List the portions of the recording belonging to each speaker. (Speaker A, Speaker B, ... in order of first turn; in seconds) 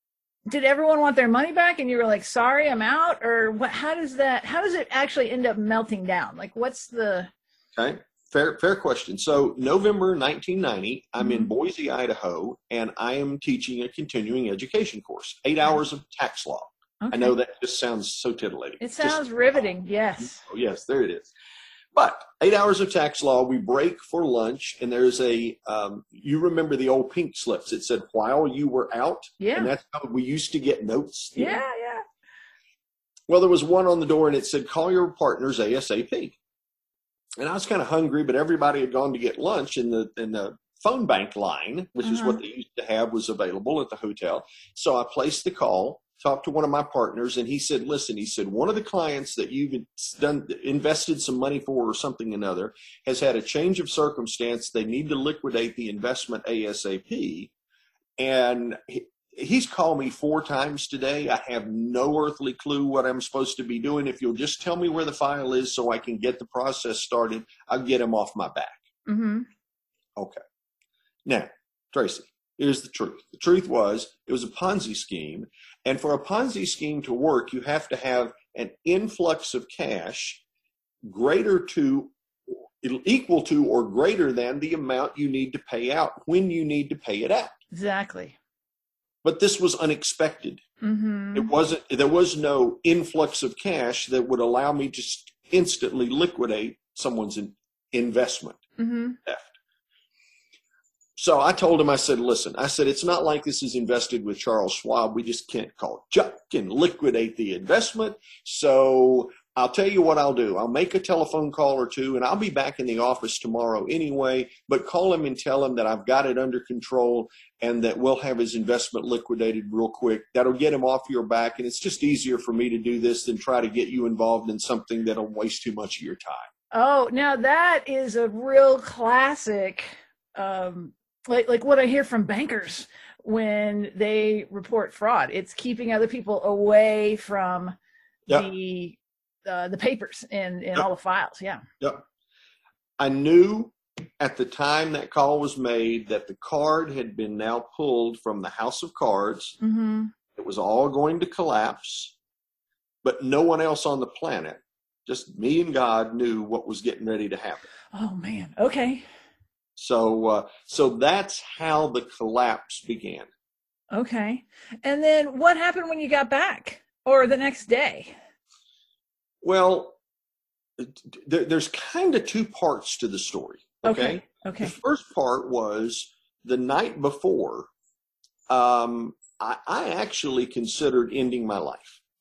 Speaker A: 0.5-7.3, 11.2-11.5, 17.0-17.3, 18.8-20.4, 29.4-29.7, 31.4-32.0, 42.0-42.4, 69.0-69.5, 87.7-88.3, 90.8-91.5, 98.8-99.2, 126.7-137.8, 138.3-141.6, 149.6-150.1, 157.9-159.0, 163.9-168.1, 173.8-174.7
Speaker B: 7.7-19.2, 20.2-21.3, 21.9-31.6, 33.3-36.4, 37.4-57.5, 58.2-68.8, 71.2-80.4, 81.0-87.5, 89.2-90.6, 91.3-98.6, 99.2-99.5, 101.2-126.5, 143.0-149.6, 150.3-152.1, 153.0-157.7, 159.8-163.3, 169.4-169.9, 170.8-177.7, 178.5-182.0